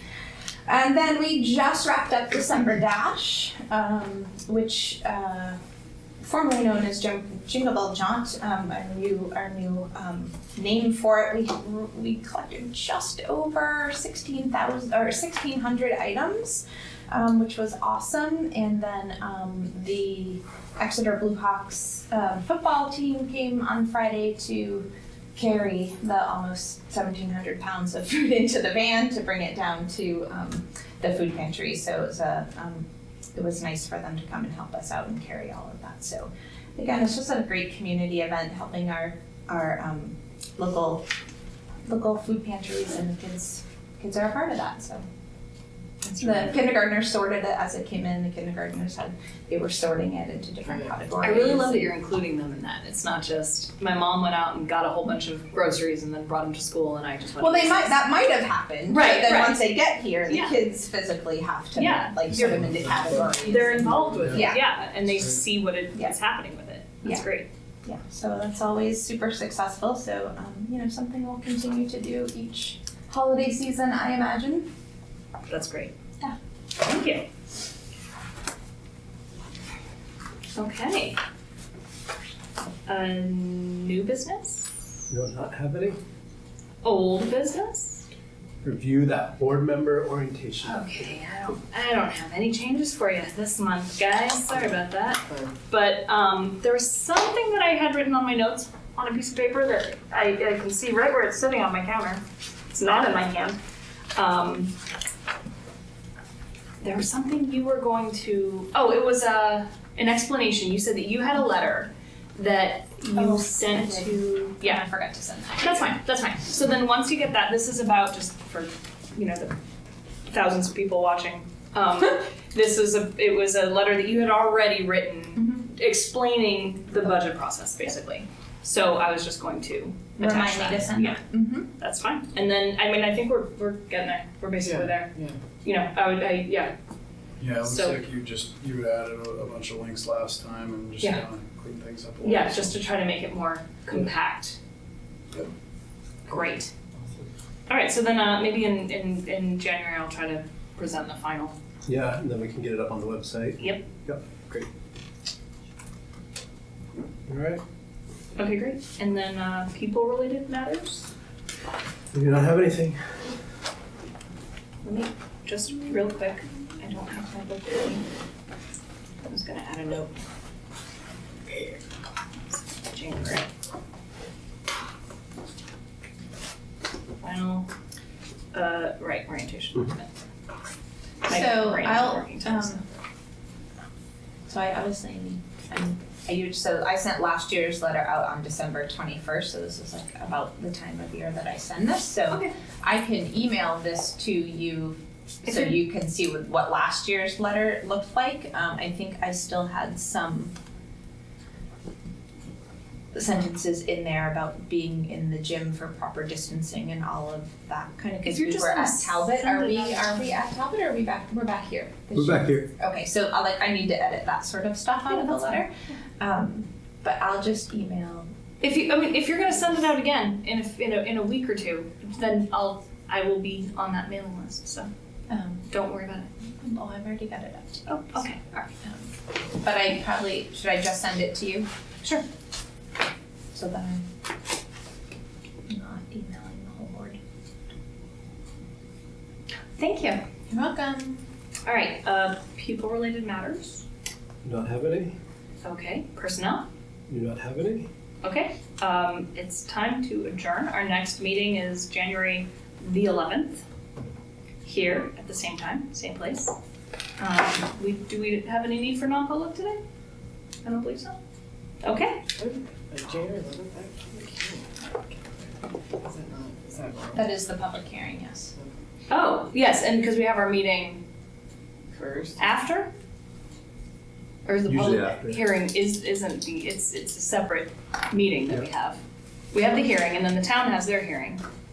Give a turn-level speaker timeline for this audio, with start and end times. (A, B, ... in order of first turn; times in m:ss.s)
0:00.7-0:05.6 A
0:06.2-0:41.0 A
0:41.9-0:45.0 A
0:46.0-0:46.6 B
0:46.2-0:51.9 A
0:51.2-0:58.0 B
0:57.4-1:04.6 A
0:58.9-0:59.7 B
1:00.3-1:00.6 B
1:01.8-1:07.5 B
1:07.8-1:14.7 A
1:15.5-1:15.9 B
1:16.8-1:17.3 B
1:20.6-1:21.2 B
1:22.9-1:24.7 B
1:25.1-1:26.0 C
1:26.8-1:28.1 B
1:28.6-1:31.1 C
1:30.6-1:43.6 B
1:35.3-1:35.5 D
1:44.2-1:44.7 B
1:46.8-1:54.9 B
1:53.1-1:56.0 A
1:55.6-1:59.5 B
2:00.3-2:11.2 B
2:05.4-2:05.7 A
2:10.2-2:11.7 A
2:11.8-2:16.8 B
2:14.6-2:15.4 D
2:17.4-2:22.8 E
2:17.6-2:18.0 B
2:22.2-2:24.6 B
2:26.3-2:26.7 B
2:27.7-2:31.6 B
2:31.9-2:34.7 C
2:33.6-2:33.8 B
2:37.3-2:37.6 C
2:38.4-2:41.1 B
2:42.1-2:43.2 C
2:44.8-2:48.0 B
2:49.2-2:50.1 B
2:51.5-2:51.8 B
2:52.5-2:53.5 B
2:57.2-2:57.7 B
2:58.5-3:00.1 B
3:01.2-3:02.8 A
3:01.2-3:02.9 B
3:04.5-3:20.5 A
3:15.5-3:15.8 B
3:23.1-3:38.3 A
3:28.2-3:30.3 B
3:32.2-3:32.7 C
3:35.1-3:35.6 B
3:38.6-3:44.9 B
3:45.3-3:45.7 A
3:45.7-3:46.3 B
3:46.4-3:49.1 A
3:47.9-3:48.7 B
3:49.6-3:51.7 A
3:53.5-3:54.1 A
3:55.7-3:57.2 A
3:59.8-4:00.2 B
4:00.5-4:01.2 A
4:01.7-4:03.8 B
4:04.4-4:05.2 C
4:05.6-4:06.7 B
4:07.1-4:07.9 C
4:08.2-4:13.6 B
4:14.6-4:16.6 B
4:17.2-4:19.8 B
4:20.6-4:21.2 B
4:21.8-4:22.2 B
4:22.4-4:27.2 D
4:27.2-4:28.5 A
4:29.1-4:31.0 B
4:31.9-4:32.4 D
4:32.4-4:32.9 B
4:34.4-4:39.0 B
4:34.7-4:35.4 C
4:39.5-4:41.4 B